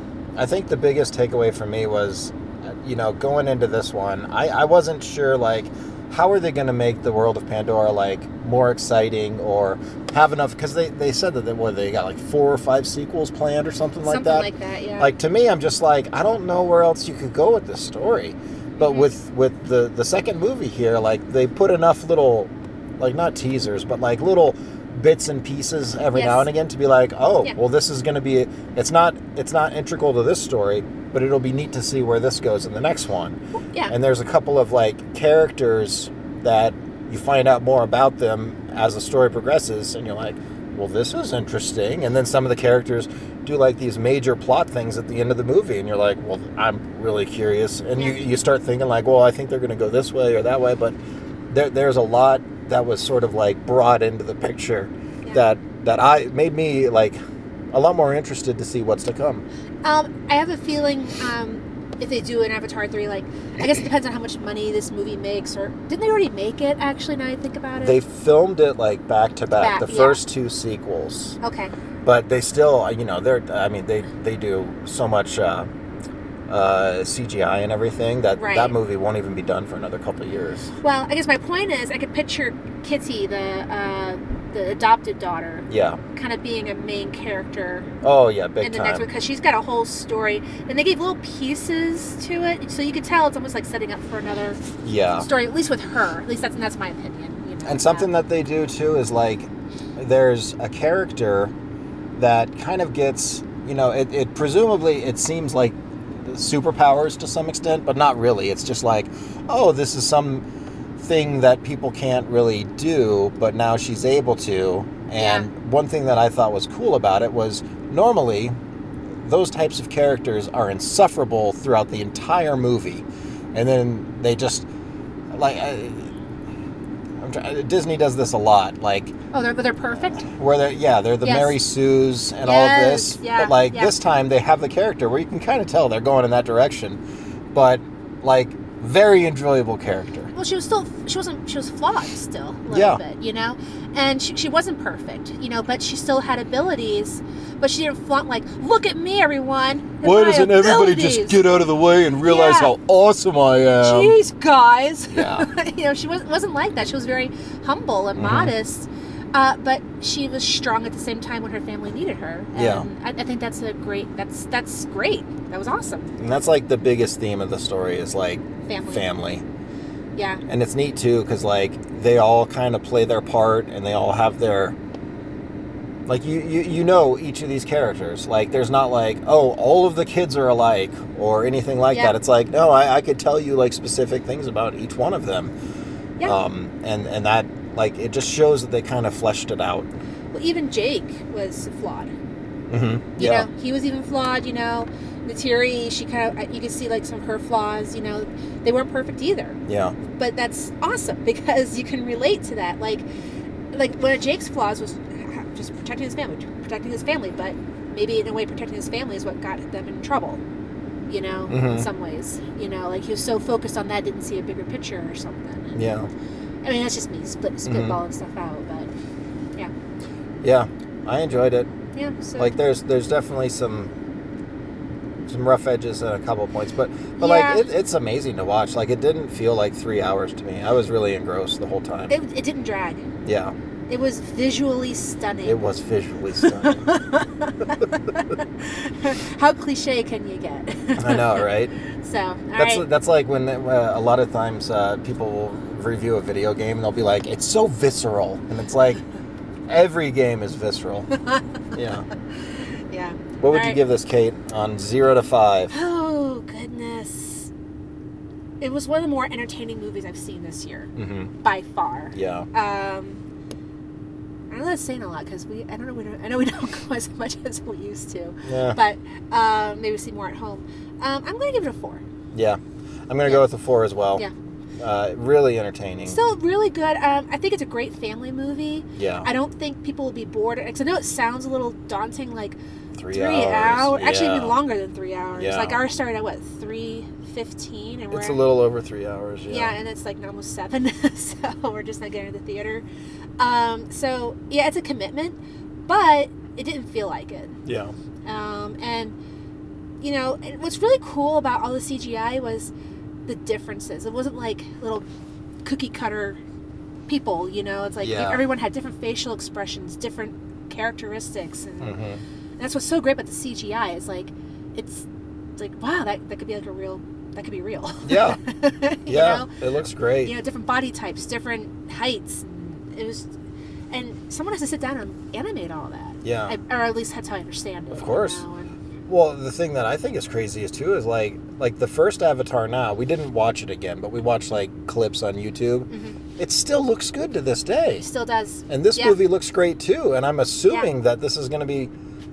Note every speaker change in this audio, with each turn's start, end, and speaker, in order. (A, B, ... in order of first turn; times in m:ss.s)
0:00.4-0:33.4 A
0:14.0-0:15.1 B
0:18.8-0:19.1 B
0:26.1-0:26.5 B
0:33.9-0:51.0 A
0:48.0-0:48.2 B
0:51.5-0:57.2 A
0:57.7-0:59.4 A
0:59.8-1:08.0 B
1:07.8-1:11.4 A
1:09.5-1:10.2 B
1:11.4-1:11.7 B
1:12.0-1:15.7 A
1:16.5-1:20.7 A
1:18.4-1:18.8 B
1:20.8-1:27.9 B
1:25.7-1:26.0 A
1:28.0-1:29.1 A
1:28.6-1:34.6 B
1:34.8-1:35.3 A
1:35.2-1:38.1 B
1:37.6-1:41.5 A
1:42.2-1:50.4 A
1:51.0-1:58.5 A
1:55.2-1:55.5 B
1:59.2-2:04.7 A
2:05.3-2:06.1 A
2:07.2-2:09.1 A
2:09.3-2:10.2 B
2:10.0-2:17.0 A
2:11.2-2:11.6 B
2:12.4-2:13.9 B
2:17.5-2:20.3 A
2:20.3-2:31.5 B
2:22.7-2:23.0 A
2:30.0-2:34.2 A
2:32.2-2:32.7 B
2:33.8-2:46.1 B
2:35.1-2:35.5 A
2:38.2-2:38.5 A
2:42.5-2:42.9 A
2:46.2-2:49.4 A
2:48.7-2:49.1 B
2:50.2-2:50.4 B
2:50.5-2:54.8 A
2:56.1-3:05.5 A
3:06.2-3:09.9 A
3:10.3-3:12.1 B
3:12.7-3:13.5 A
3:13.2-3:23.1 B
3:19.7-3:20.0 A
3:23.7-3:30.4 B
3:31.1-3:35.8 B
3:31.5-3:31.9 A
3:35.8-3:36.1 A
3:36.6-3:38.9 B
3:37.7-3:38.0 A
3:40.4-3:41.7 A
3:41.9-3:42.6 B
3:42.4-3:43.9 A
3:45.3-3:52.1 A
3:47.2-3:47.7 B
3:52.1-3:53.0 B
3:53.2-3:53.6 A
3:53.9-3:55.6 B
3:55.4-3:56.9 A
3:56.4-4:01.5 B
4:01.0-4:01.8 A
4:02.0-4:02.8 B
4:02.6-4:09.0 A
4:09.7-4:11.1 A
4:11.2-4:11.4 B
4:11.8-4:12.1 A
4:12.9-4:13.8 B
4:13.4-4:15.7 A
4:15.7-4:17.5 B
4:18.6-4:20.9 B
4:21.0-4:21.3 A
4:21.4-4:23.2 B
4:22.1-4:22.5 A
4:24.5-4:32.0 B
4:28.4-4:28.8 A
4:32.3-4:34.2 A
4:34.8-4:36.2 A
4:36.0-4:42.6 B
4:39.0-4:39.3 A
4:43.0-4:44.6 A
4:43.1-4:48.5 B
4:45.4-4:45.8 A
4:48.1-4:49.7 A
4:49.5-4:52.8 B
4:53.4-4:55.4 B
4:55.9-4:57.6 B
4:57.6-4:57.9 A
4:58.3-4:59.2 B
5:00.0-5:02.7 B
5:03.3-5:05.1 B
5:05.6-5:06.4 B
5:07.1-5:12.0 B
5:08.0-5:08.5 A
5:11.8-5:12.2 A
5:12.6-5:15.1 B
5:15.6-5:19.5 B
5:18.0-5:18.4 A
5:19.1-5:20.3 A
5:20.2-5:23.3 B
5:23.9-5:28.7 B
5:26.2-5:26.6 A
5:27.9-5:28.4 A
5:29.1-5:38.0 A
5:35.9-5:36.2 B
5:38.0-5:39.2 B
5:38.7-5:41.9 A